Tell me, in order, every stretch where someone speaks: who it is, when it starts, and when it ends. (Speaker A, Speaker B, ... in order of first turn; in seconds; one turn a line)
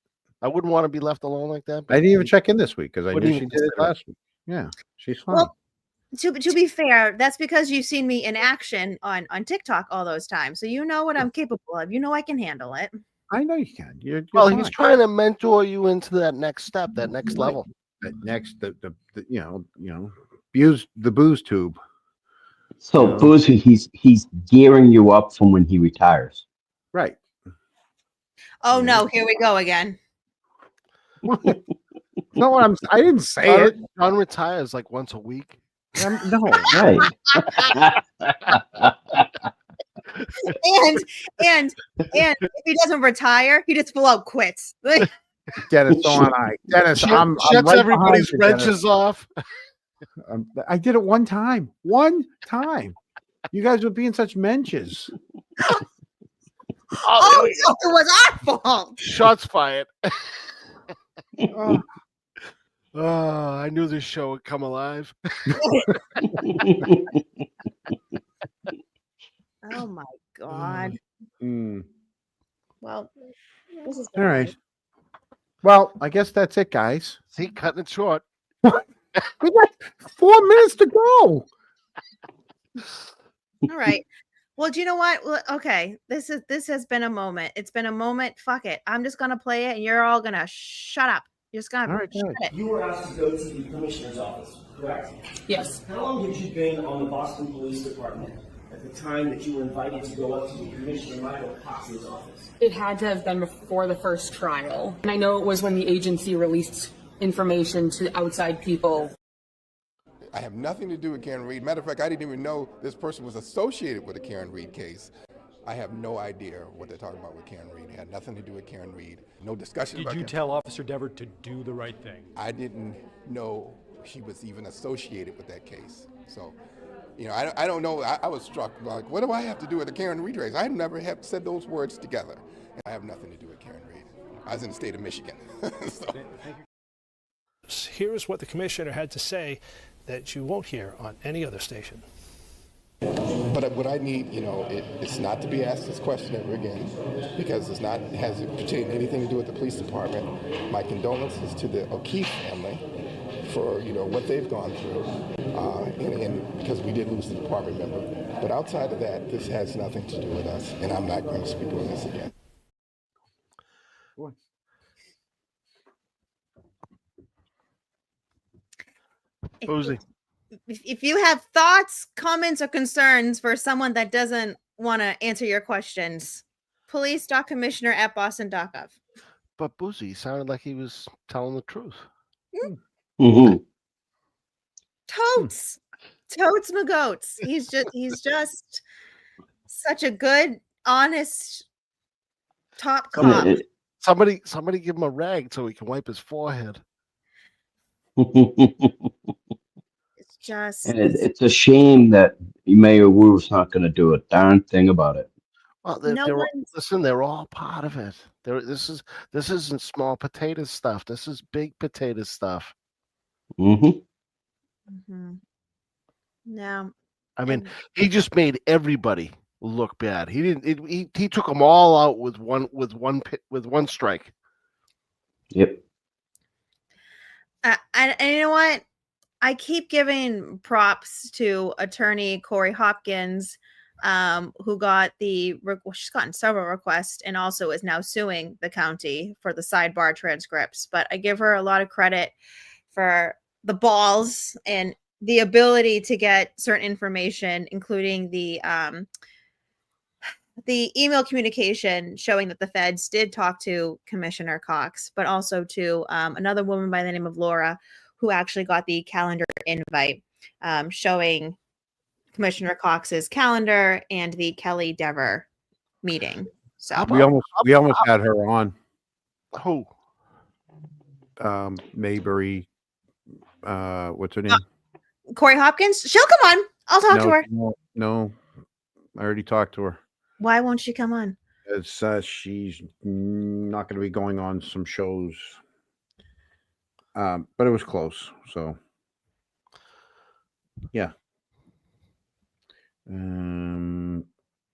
Speaker A: 0.4-2.3
Speaker B: 1.9-5.5
Speaker A: 3.1-3.9
Speaker C: 6.1-12.9
Speaker B: 13.3-14.8
Speaker A: 14.3-17.7
Speaker B: 17.3-21.8
Speaker D: 22.8-26.4
Speaker B: 23.0-23.3
Speaker B: 26.9-27.2
Speaker C: 28.6-30.0
Speaker B: 28.7-29.1
Speaker B: 31.3-31.6
Speaker B: 32.4-33.8
Speaker A: 33.4-35.6
Speaker B: 36.0-36.8
Speaker D: 36.7-38.6
Speaker C: 40.5-45.1
Speaker B: 45.6-48.8
Speaker A: 47.0-49.3
Speaker B: 50.3-53.0
Speaker B: 53.5-55.1
Speaker A: 57.1-57.7
Speaker C: 57.1-59.0
Speaker A: 59.0-60.1
Speaker B: 61.5-61.8
Speaker A: 62.9-65.5
Speaker C: 69.6-71.0
Speaker B: 71.4-71.9
Speaker C: 72.8-73.1
Speaker C: 73.8-74.5
Speaker B: 74.2-74.5
Speaker B: 75.6-77.2
Speaker A: 77.3-78.2
Speaker B: 79.4-81.5
Speaker C: 83.7-84.1
Speaker C: 84.6-92.5
Speaker B: 91.9-92.4
Speaker E: 92.5-95.2
Speaker F: 95.5-95.8
Speaker E: 95.9-102.5
Speaker F: 102.6-109.1
Speaker G: 110.3-115.1
Speaker G: 115.7-120.4
Speaker H: 119.9-122.3
Speaker G: 122.3-126.6
Speaker G: 127.2-136.2
Speaker I: 137.7-142.1
Speaker G: 143.5-152.8
Speaker G: 153.4-162.3
Speaker C: 169.6-170.0
Speaker A: 169.7-170.0
Speaker C: 170.7-179.0
Speaker A: 179.6-182.1
Speaker D: 183.2-183.6
Speaker C: 185.1-188.8
Speaker C: 189.7-191.7
Speaker C: 192.8-193.6
Speaker D: 193.2-193.6
Speaker A: 194.0-196.8
Speaker D: 198.2-199.1
Speaker C: 200.2-201.3
Speaker D: 200.8-205.3
Speaker A: 205.8-212.7
Speaker C: 206.1-206.7
Speaker D: 213.6-214.0
Speaker C: 214.9-215.4
Speaker C: 216.5-216.9
Speaker A: 217.4-224.3
Speaker C: 217.5-217.7
Speaker D: 225.5-225.8
Speaker C: 227.6-228.8
Speaker C: 229.4-242.4
Speaker C: 242.9-249.1
Speaker C: 250.6-261.6
Speaker C: 262.3-265.5
Speaker C: 266.0-267.2
Speaker A: 266.9-268.0
Speaker B: 267.1-268.7
Speaker A: 269.5-269.9
Speaker B: 271.4-272.7
Speaker B: 273.6-274.6
Speaker C: 275.4-277.4
Speaker B: 277.1-278.4
Speaker B: 279.2-280.0
Speaker C: 280.4-281.4
Speaker B: 281.7-285.6
Speaker B: 287.1-288.8
Speaker B: 293.1-294.2